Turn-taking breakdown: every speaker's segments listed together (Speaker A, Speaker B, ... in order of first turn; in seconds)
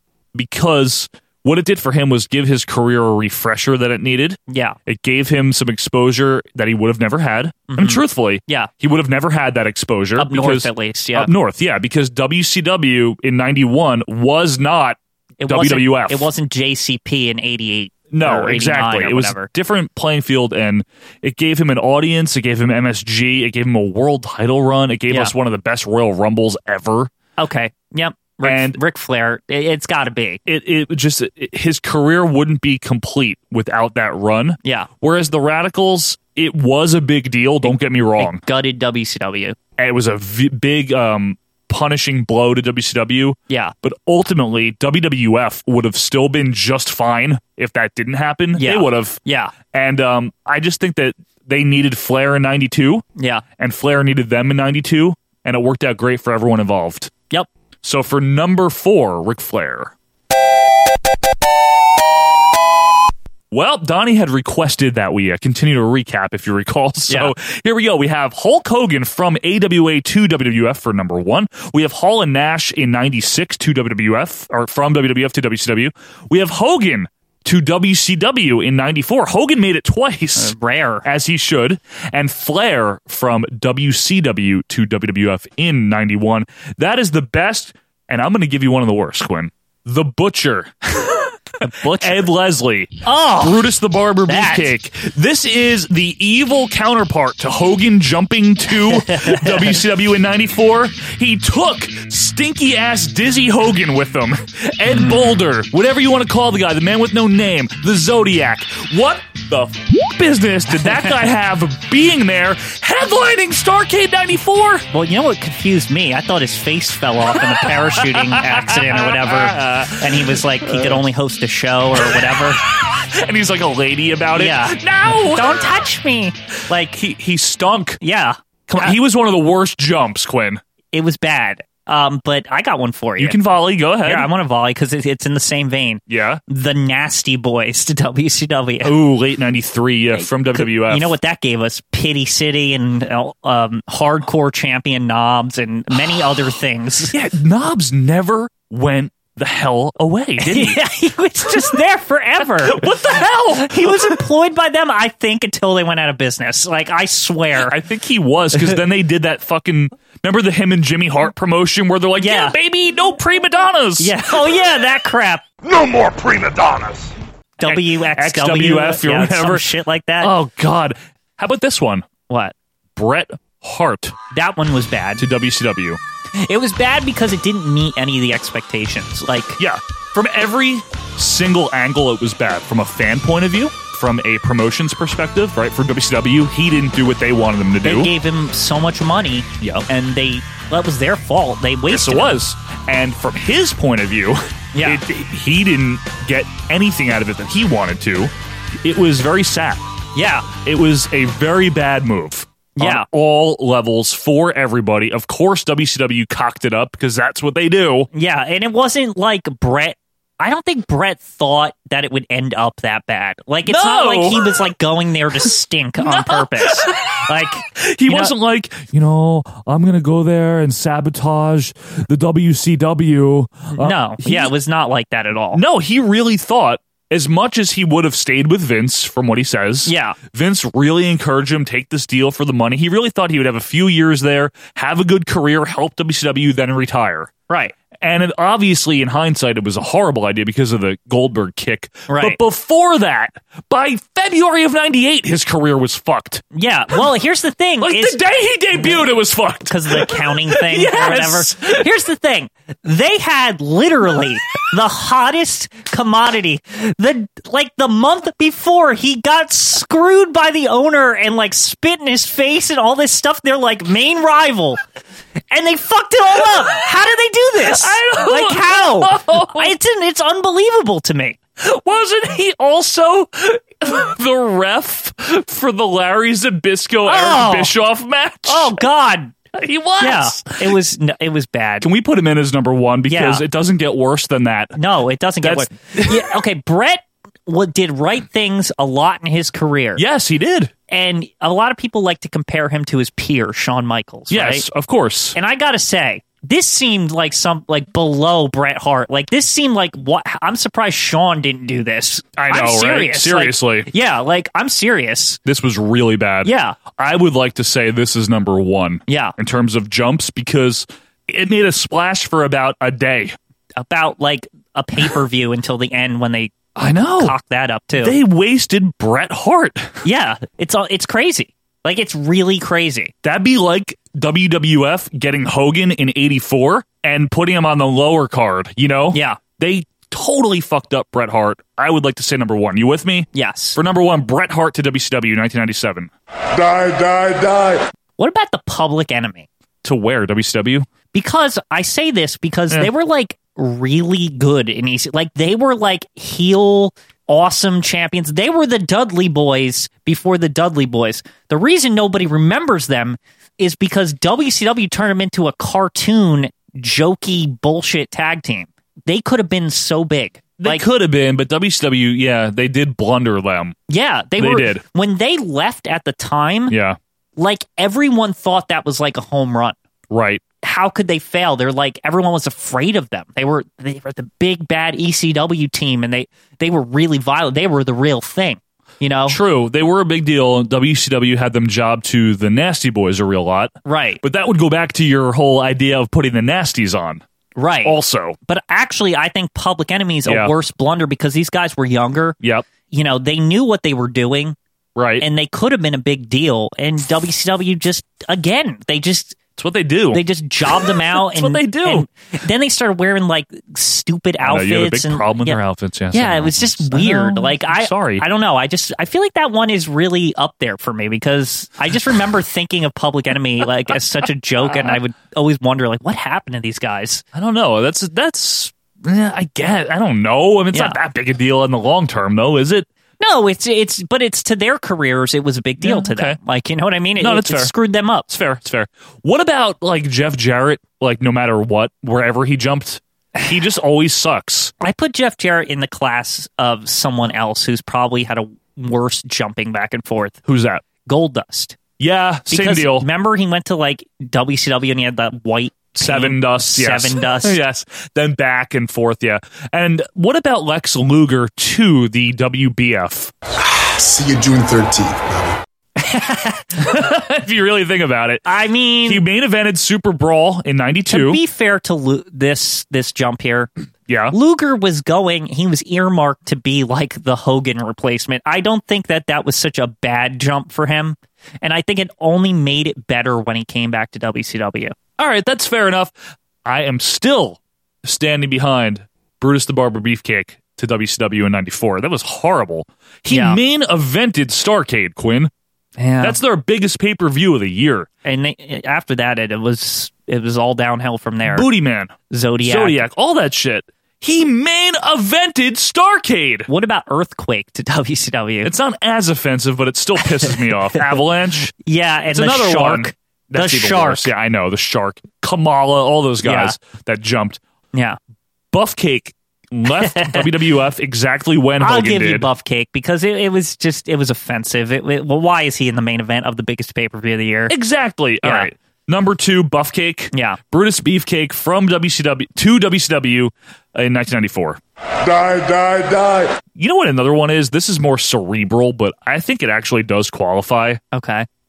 Speaker A: 0.3-16.3, 18.1-27.1, 28.4-28.8, 30.5-38.4, 39.8-53.0, 53.6-57.1, 57.8-59.9, 63.5-80.5, 81.0-91.3, 92.0-114.8, 117.3-121.0, 122.0-125.7, 126.9-128.0, 128.7-130.6, 133.2-134.3, 136.1-136.4, 138.8-141.1, 147.1-150.8, 151.5-151.8, 152.6-154.2, 157.6-164.2, 167.6-169.7, 170.2-172.1, 173.0-174.1, 175.2-176.0, 179.6-188.1, 189.6-189.9, 191.9-198.3, 198.8-199.8, 200.5-208.1, 213.7-214.7, 216.0-224.5, 225.5-237.3, 238.0-246.4, 247.8-251.9, 267.6-269.7, 271.6-278.8, 279.6-280.7, 281.8-284.8, 285.4-286.3, 290.0-290.7, 294.3-295.4, 302.4-303.9, 305.5-313.4, 316.8-317.3, 318.0-320.0, 323.2-336.1, 339.8-340.9, 360.6-363.8, 364.4-364.8, 366.7-367.0, 370.1-370.4, 379.3-387.2, 387.9-388.4, 390.3-390.5, 392.4-392.7, 395.0-395.2, 399.6-402.1, 404.4-408.2, 414.7-415.0, 417.3-422.9, 425.8-426.4, 427.2-427.7, 428.3-434.7, 440.5-440.8, 442.0-443.1, 446.0-453.3, 456.8-458.4, 459.1-461.4, 464.1-464.4, 475.2-476.1, 476.6-485.5, 486.2-488.1, 491.5-496.7, 498.6-501.7, 502.3-507.6, 508.7-512.5, 517.7-524.8, 526.8-531.0
Speaker B: 4.5-4.8, 7.7-8.7, 10.2-11.3, 15.4-19.5, 27.4-30.4, 37.6-39.6, 48.6-49.5, 53.2-53.4, 80.4-81.1, 91.6-92.3, 93.0-93.6, 94.3-94.7, 98.9-99.8, 104.9-105.4, 110.8-111.1, 114.9-122.6, 124.3-127.0, 128.0-129.0, 130.9-133.4, 134.1-138.9, 140.2-147.1, 150.4-152.9, 153.7-157.8, 162.2-162.6, 164.0-165.5, 167.6-170.3, 172.3-172.5, 174.3-175.2, 176.4-179.6, 187.8-192.3, 194.7-195.0, 200.2-200.5, 202.8-203.1, 208.1-218.3, 223.8-225.6, 229.9-230.2, 237.5-237.7, 242.1-242.4, 246.5-248.2, 248.8-249.0, 249.7-264.8, 265.5-271.4, 277.1-277.7, 278.5-279.3, 280.0-281.9, 283.1-283.4, 284.8-290.0, 290.9-294.6, 295.4-305.4, 306.4-306.8, 309.1-309.3, 313.8-316.6, 317.2-318.1, 320.0-323.1, 329.1-329.4, 333.3-333.8, 338.2-339.5, 341.1-360.9, 363.9-366.8, 367.4-369.8, 370.6-379.4, 383.9-384.2, 387.6-387.9, 388.5-392.4, 392.9-394.6, 395.2-399.4, 400.1-405.6, 406.1-417.2, 423.2-428.3, 434.8-440.4, 441.1-441.8, 442.5-447.6, 456.0-456.9, 458.4-459.2, 461.1-463.7, 464.3-474.9, 483.3-483.6, 486.0-486.4, 488.2-491.7, 492.3-493.0, 496.7-498.7, 500.4-501.2, 501.8-504.3, 506.4-506.8, 510.0-510.5, 511.8-517.7, 518.4-518.7, 520.3-520.6, 531.1-531.5
Speaker C: 336.6-337.8, 525.3-526.5